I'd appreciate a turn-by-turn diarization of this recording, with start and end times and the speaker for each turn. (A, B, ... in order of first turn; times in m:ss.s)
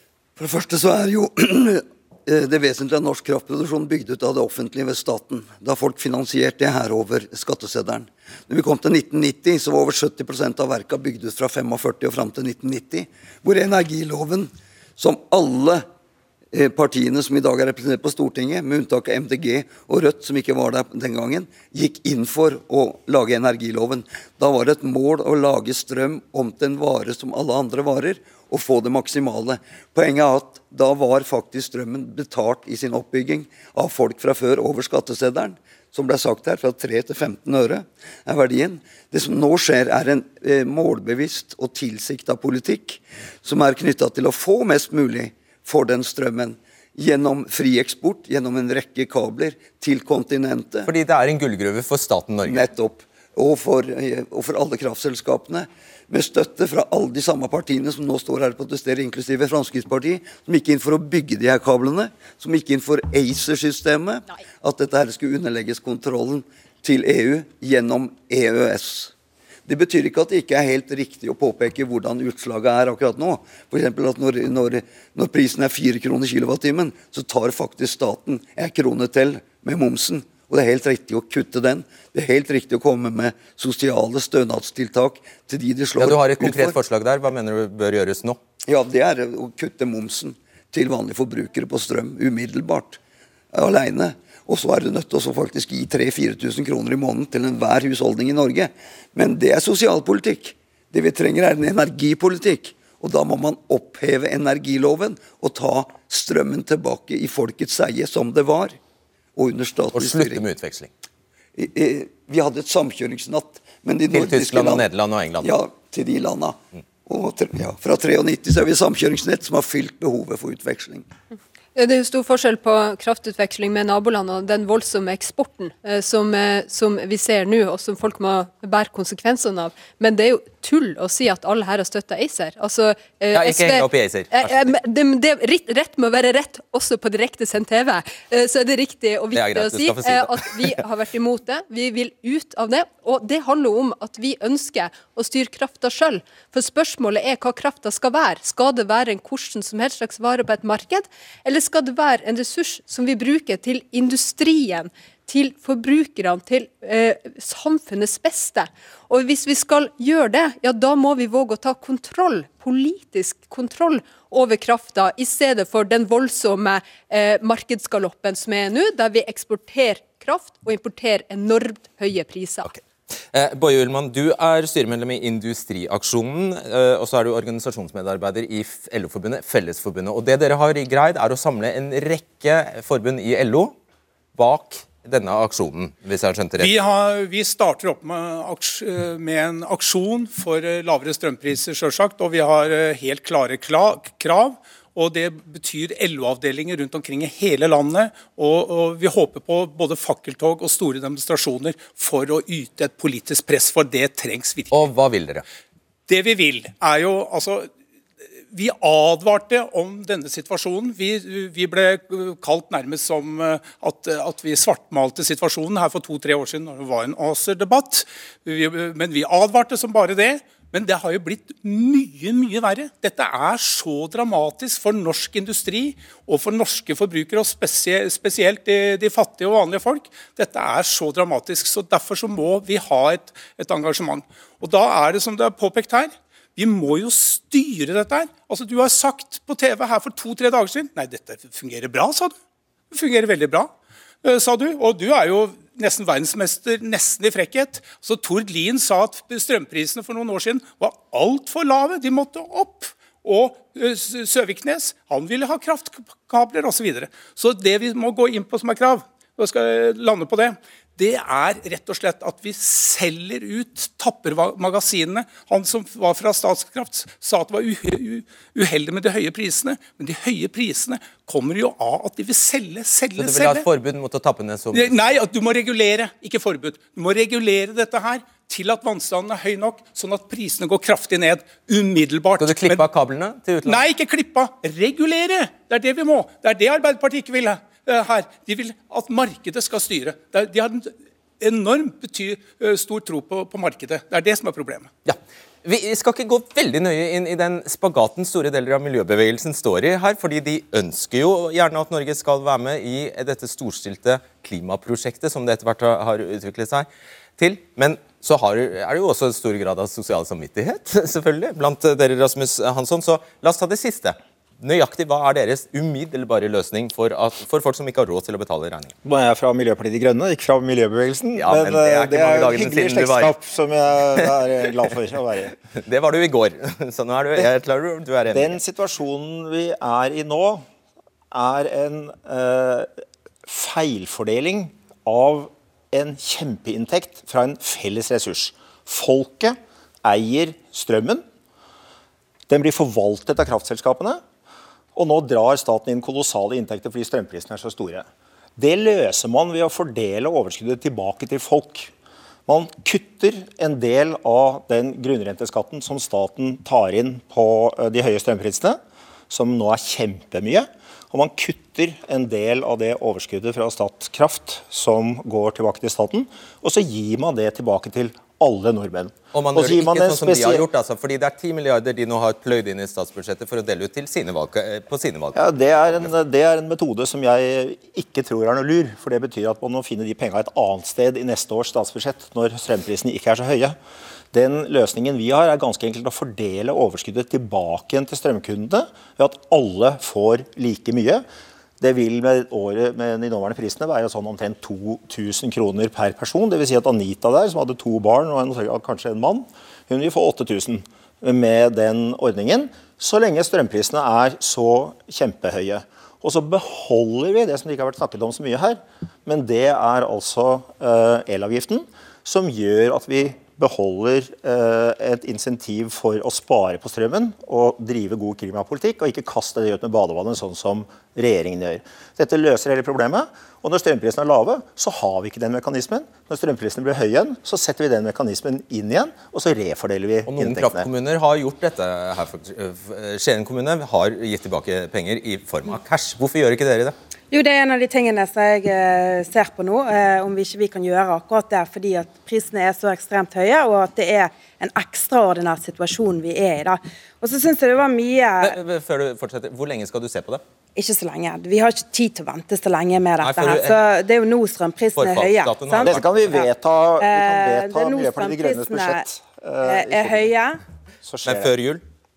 0:00.4-0:15.8 A
0:16.5-0:50.9 A
0:50.8-0:52.7 B
0:52.4-1:09.1 A
1:09.7-1:26.8 A
1:26.0-1:28.4 B
1:28.6-1:33.0 A
1:33.5-1:48.8 A
1:49.4-1:50.4 A
1:49.9-1:50.9 B
1:51.6-1:54.9 A
1:54.1-1:55.5 B
1:55.4-2:01.1 A
2:01.7-2:52.7 C
2:13.3-2:14.7 B
2:19.3-2:20.7 B
2:53.3-3:03.7 B
3:04.3-3:06.7 B
3:06.6-3:24.7 D
3:24.7-3:25.4 B
3:26.1-3:27.7 D
3:28.5-4:02.3 D
4:02.9-4:03.7 D
4:04.2-4:33.6 D
4:33.2-4:35.0 B
4:34.7-4:42.8 D
4:42.4-4:43.9 B
4:43.6-4:54.9 D
4:55.0-5:18.9 B
5:19.0-5:25.5 E
5:21.3-5:23.4 B
5:25.7-5:28.6 B
5:28.3-5:30.6 E
5:31.3-5:32.9 E
5:33.5-5:41.2 E
5:42.5-5:44.2 E
5:44.9-5:48.0 E
5:48.6-5:51.9 E
5:52.5-5:58.8 E
5:59.3-6:10.6 E
6:09.3-6:16.1 B
6:15.3-6:23.8 E
6:24.3-6:31.2 E
6:31.8-7:10.8 E
7:10.2-7:16.9 B
7:17.3-7:28.6 F
7:28.4-7:30.4 B
7:30.8-7:36.5 F
7:33.2-7:33.8 B
7:35.0-7:36.4 B
7:35.8-7:40.3 E
7:37.0-7:39.1 F
7:39.6-7:40.6 F
7:41.0-7:41.5 E
7:41.2-7:41.8 B